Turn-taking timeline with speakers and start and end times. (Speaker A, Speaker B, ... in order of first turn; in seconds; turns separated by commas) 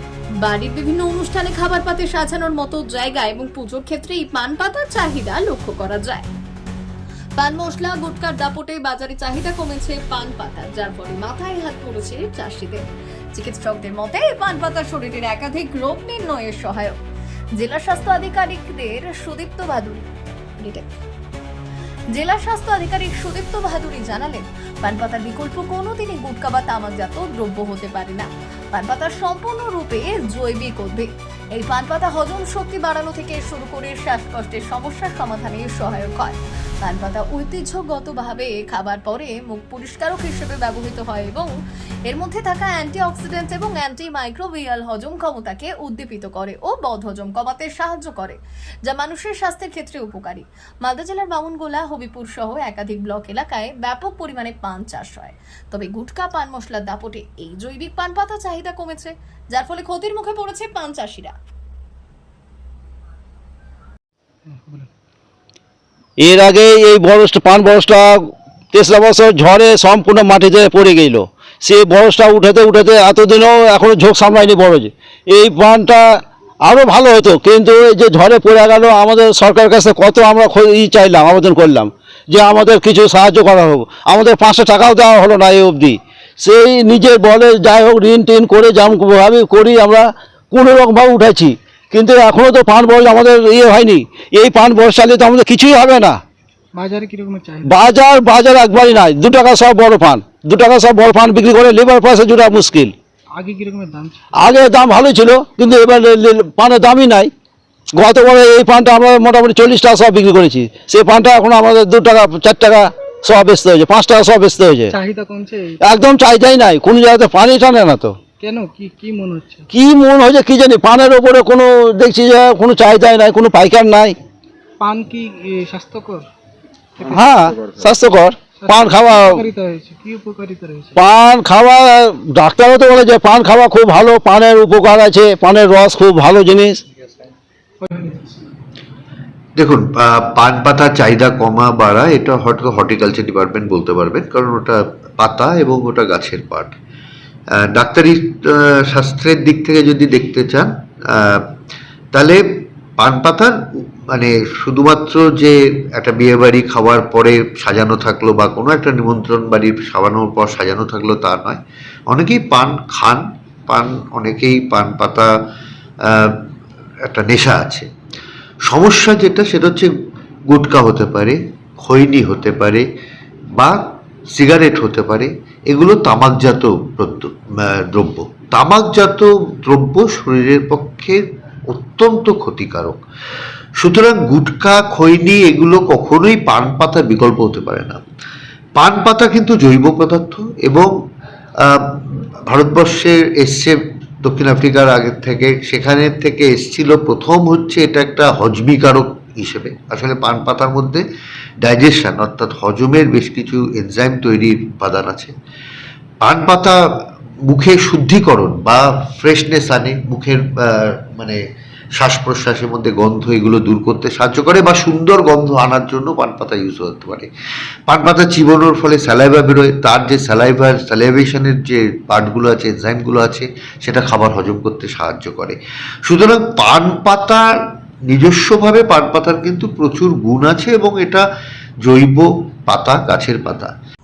Speaker A: 0.4-6.2, Speaker A: 7.4-12.8, Speaker A: 13.3-16.9, Speaker A: 17.6-20.0, Speaker A: 20.6-20.9, Speaker A: 22.1-41.5, Speaker A: 42.1-61.3, Speaker B: 64.5-64.9, Speaker C: 66.2-68.2, Speaker C: 68.7-76.0, Speaker C: 76.6-96.2, Speaker B: 96.7-97.9, Speaker C: 97.7-102.9, Speaker B: 103.3-104.3, Speaker C: 104.3-107.3, Speaker C: 107.9-114.9, Speaker B: 114.9-115.8, Speaker C: 115.8-118.2, Speaker B: 118.4-119.7, Speaker C: 119.7-124.2, Speaker B: 124.8-126.3, Speaker C: 127.1-129.4, Speaker B: 128.6-130.9, Speaker C: 130.9-136.8, Speaker B: 137.8-138.3, Speaker D: 139.6-146.7, Speaker D: 147.5-151.5, Speaker D: 152.1-165.3, Speaker D: 166.0-166.4, Speaker D: 167.1-167.9, Speaker D: 168.7-169.9, Speaker D: 170.5-172.8, Speaker D: 174.3-183.0, Speaker D: 183.8-188.0, Speaker D: 188.8-190.9, Speaker D: 191.6-201.0, Speaker D: 201.6-205.3, Speaker D: 206.2-206.8, Speaker D: 207.4-211.4, Speaker D: 212.0-217.3, Speaker D: 217.9-227.4, Speaker D: 228.1-231.2, Speaker D: 231.8-233.7